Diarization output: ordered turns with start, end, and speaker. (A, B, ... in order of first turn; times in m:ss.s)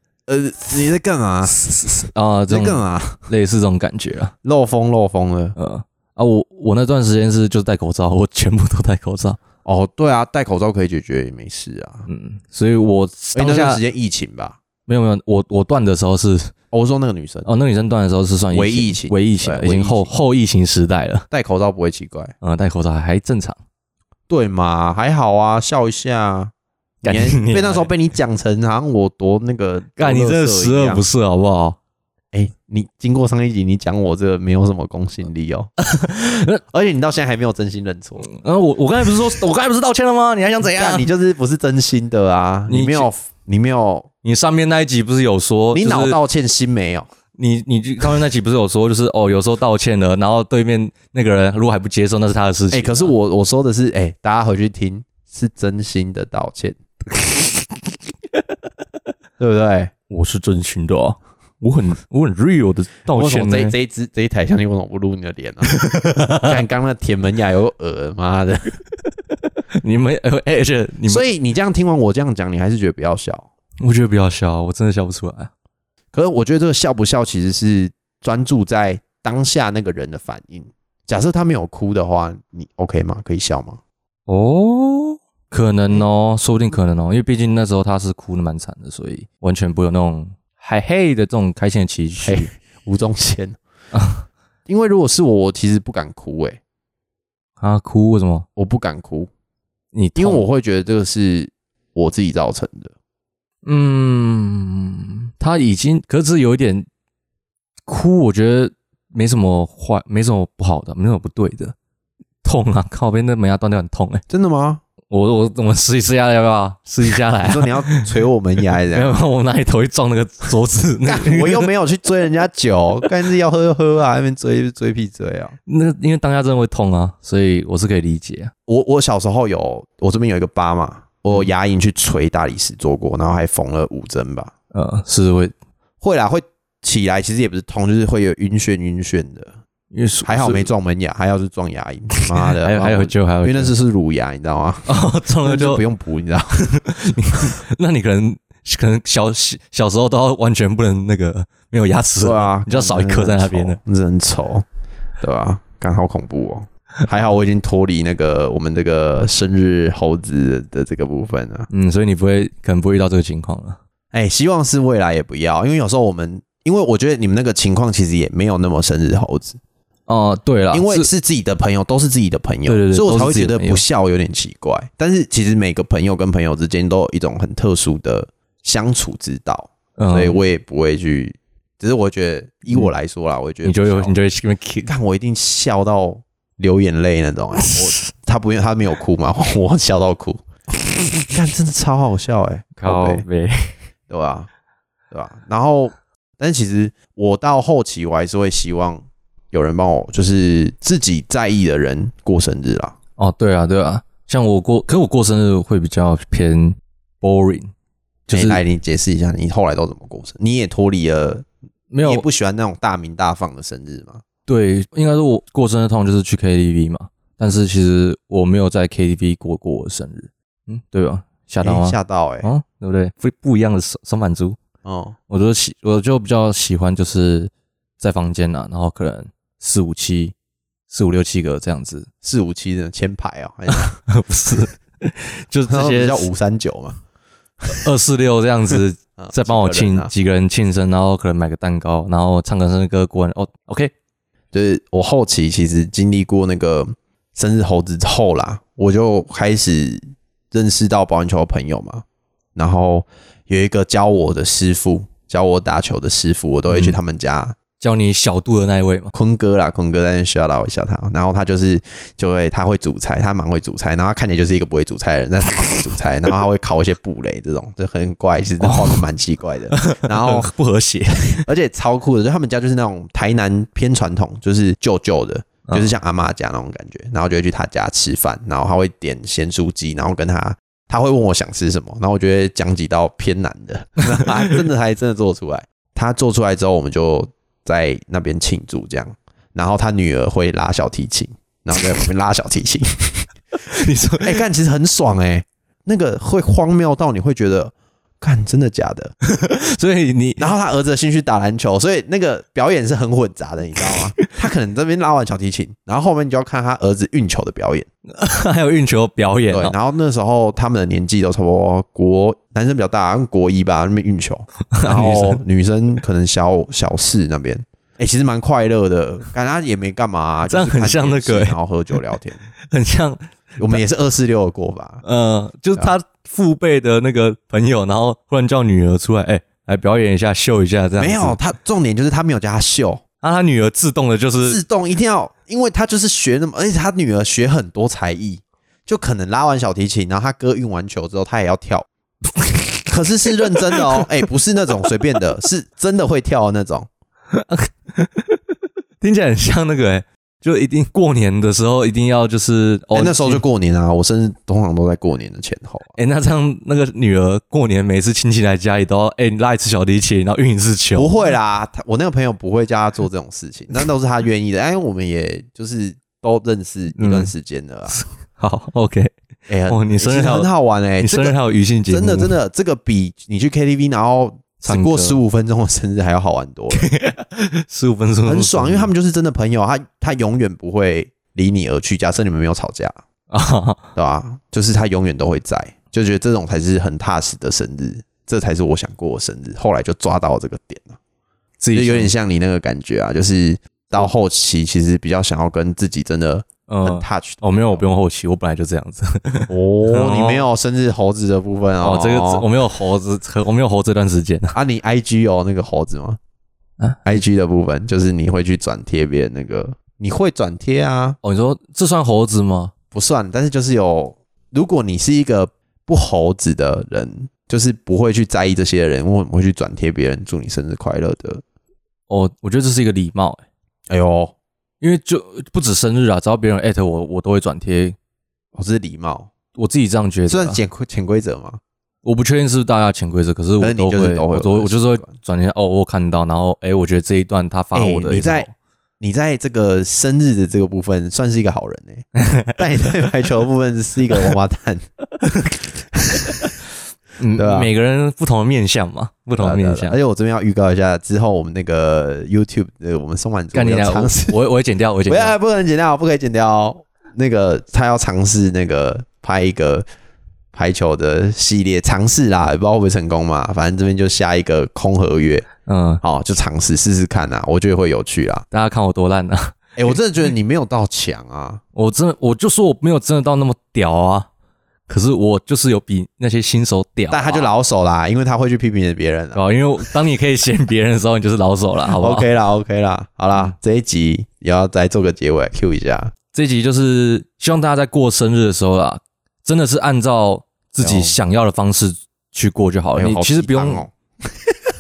0:00.3-0:03.3 A
0:01.6-0:04.3 B
0:04.4-0:05.6 A
0:05.6-0:09.4 B
0:09.6-0:12.1 A
0:12.1-0:13.8 B
0:13.3-0:14.6 A
0:14.9-0:16.5 B
0:16.7-0:17.5 A
0:17.4-0:21.3 B
0:18.5-0:20.1 A
0:21.3-0:22.3 A
0:22.4-0:23.6 B
0:24.3-0:26.5 A
0:27.0-0:31.0 A
0:27.0-0:27.9 B
0:30.0-0:31.8 B
0:32.3-0:35.7 A
0:35.8-0:36.6 B
0:36.7-0:38.3 A
0:38.3-0:41.1 B
0:40.7-0:44.1 A
0:42.7-0:43.1 B
0:44.2-0:46.2 B
0:45.7-0:47.1 A
0:47.4-0:53.1 B
0:52.7-0:56.8 A
0:59.4-0:59.9 A
1:00.1-1:03.7 B
1:03.1-1:05.8 A
1:05.6-1:06.6 B
1:06.4-1:08.8 A
1:09.8-1:11.2 B
1:11.1-1:13.5 A
1:13.8-1:15.5 B
1:16.1-1:23.8 A
1:24.3-1:32.5 B
1:32.2-1:33.6 A
1:33.9-1:34.2 B
1:34.7-1:36.6 A
1:37.6-1:38.5 B
1:38.6-1:39.3 A
1:39.9-1:40.4 B
1:40.2-1:42.9 A
1:43.6-1:46.8 B
1:47.9-1:51.7 B
1:52.4-1:54.2 B
1:54.3-1:54.8 A
1:55.1-1:58.0 B
1:57.4-1:59.1 A
1:58.9-2:01.7 B
2:01.1-2:05.6 A
2:05.7-2:08.5 B
2:08.7-2:14.5 A
2:14.7-2:15.5 B
2:16.0-2:19.5 A
2:19.9-2:20.7 B
2:20.2-2:26.6 A
2:22.4-2:23.7 B
2:24.9-2:25.8 B
2:26.6-2:33.8 B
2:32.2-2:34.6 A
2:35.2-2:41.7 A
2:41.7-2:43.8 B
2:44.1-2:49.6 A
2:50.1-2:51.1 B
2:50.7-3:04.1 A
2:52.7-2:53.8 B
3:00.0-3:00.4 B
3:03.6-3:04.9 B
3:04.8-3:10.4 A
3:11.2-3:13.2 A
3:12.8-3:13.8 B
3:14.1-3:14.5 A
3:15.1-3:23.0 A
3:23.2-3:27.7 B
3:28.3-3:28.6 B
3:28.3-3:31.5 A
3:31.9-3:32.2 B
3:32.0-3:34.2 A
3:34.5-3:44.6 B
3:41.6-3:42.5 A
3:44.8-3:45.2 A
3:45.3-3:50.3 B
3:50.9-3:52.1 B
3:52.2-3:54.0 A
3:53.7-3:56.3 B
3:55.7-3:57.0 A
3:57.7-4:03.9 B
3:59.2-4:00.1 A
4:04.5-4:12.0 A
4:12.6-4:17.6 A
4:16.7-4:17.0 B
4:17.8-4:19.1 B
4:19.1-4:30.5 A
4:28.6-4:29.0 B
4:29.7-4:31.4 B
4:31.3-4:59.2 A
4:53.7-4:54.4 B
4:59.2-5:00.5 B
5:00.4-5:07.9 A
5:08.2-5:09.8 B
5:09.5-5:22.4 A
5:14.7-5:15.4 B
5:20.5-5:21.6 B
5:22.7-5:23.8 B
5:23.6-5:25.0 A
5:25.0-5:31.4 B
5:31.0-5:33.0 A
5:33.2-5:34.6 B
5:34.4-5:41.9 A
5:42.8-5:46.9 A
5:43.6-5:44.0 B
5:47.3-5:53.4 B
5:52.9-5:56.0 A
5:56.0-6:01.1 B
6:01.0-6:08.0 A
6:07.0-6:07.3 B
6:07.9-6:09.1 B
6:09.5-6:11.4 A
6:09.7-6:10.5 B
6:11.0-6:12.3 B
6:11.9-6:16.9 A
6:14.6-6:15.2 B
6:16.8-6:18.9 B
6:18.3-6:23.0 A
6:23.3-6:23.8 B
6:24.0-6:31.0 A
6:31.6-6:32.1 B
6:31.7-6:37.8 A
6:36.7-6:40.5 B
6:39.5-6:42.5 A
6:41.8-6:44.6 B
6:44.5-6:46.2 A
6:47.0-6:51.2 A
6:51.2-6:52.7 B
6:52.9-7:01.4 A
7:02.1-7:03.4 B
7:03.9-7:04.4 A
7:04.8-7:08.0 B
7:08.6-7:09.3 A
7:09.6-7:10.6 B
7:10.3-7:11.6 A
7:12.0-7:18.5 B
7:13.6-7:15.2 A
7:17.7-7:18.5 A
7:19.0-7:24.9 A
7:22.2-7:22.5 B
7:25.9-7:26.6 A
7:27.2-7:30.0 B
7:27.4-7:27.7 A
7:29.4-7:34.4 A
7:33.5-7:35.4 B
7:35.1-7:39.9 A
7:40.5-7:45.5 A
7:45.7-7:46.0 B
7:46.0-7:48.5 A
7:48.5-7:50.0 B
7:49.8-7:51.6 A
7:51.8-7:54.3 B
7:54.9-7:57.5 B
7:57.1-7:59.4 A
7:59.3-8:02.3 B
8:02.0-8:06.1 A
8:06.3-8:13.8 B
8:10.8-8:11.2 A
8:13.0-8:13.9 A